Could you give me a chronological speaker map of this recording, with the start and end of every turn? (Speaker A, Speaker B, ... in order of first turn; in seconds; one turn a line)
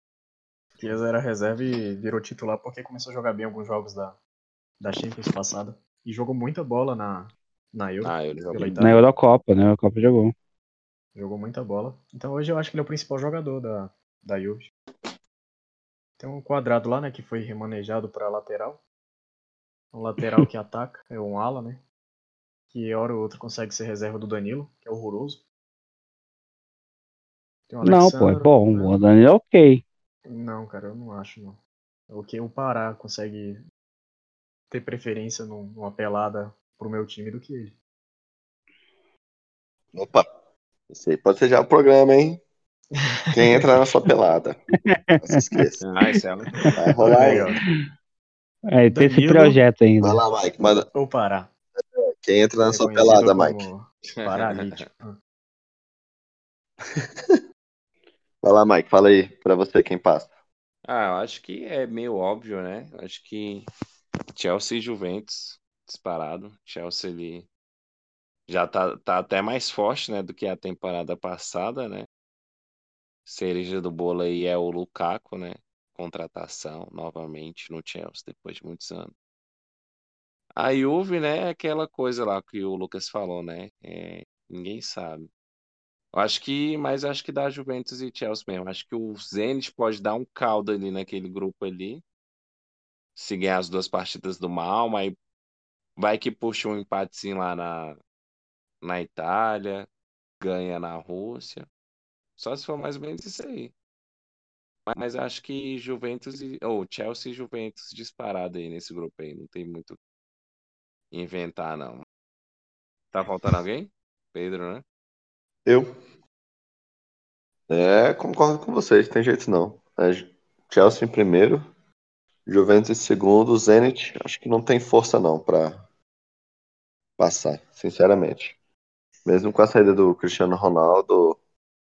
Speaker A: 0.8-4.2
Speaker A: 4.8-9.0
Speaker B: 8.0-8.8
Speaker C: 8.8-10.3
Speaker A: 11.1-14.7
Speaker A: 16.2-18.8
Speaker A: 19.9-21.8
Speaker A: 22.7-25.4
Speaker A: 27.7-28.9
Speaker C: 27.8-29.8
Speaker A: 30.3-31.6
Speaker A: 32.1-33.6
Speaker A: 34.7-37.8
Speaker D: 39.9-40.2
Speaker D: 40.9-42.4
Speaker A: 43.0-43.8
Speaker D: 43.3-44.6
Speaker C: 44.9-45.6
Speaker D: 45.2-45.8
Speaker B: 45.8-46.5
Speaker D: 46.7-47.5
Speaker A: 47.0-47.6
Speaker C: 48.7-50.2
Speaker A: 48.9-49.6
Speaker D: 50.0-50.9
Speaker A: 50.9-51.5
Speaker D: 52.2-53.7
Speaker A: 52.7-55.1
Speaker B: 54.2-54.8
Speaker D: 58.4-60.3
Speaker B: 60.8-63.7
Speaker B: 64.3-67.5
Speaker B: 68.5-72.0
Speaker B: 73.2-79.1
Speaker B: 80.5-85.3
Speaker B: 86.1-92.0
Speaker B: 93.2-95.1
Speaker B: 96.0-98.0
Speaker B: 98.8-99.9
Speaker B: 100.4-101.7
Speaker B: 102.4-103.7
Speaker B: 104.8-110.0
Speaker B: 111.1-112.0
Speaker B: 113.1-114.8
Speaker D: 115.6-115.9
Speaker D: 117.7-121.6
Speaker D: 122.5-125.8
Speaker D: 127.2-128.5
Speaker D: 129.2-131.4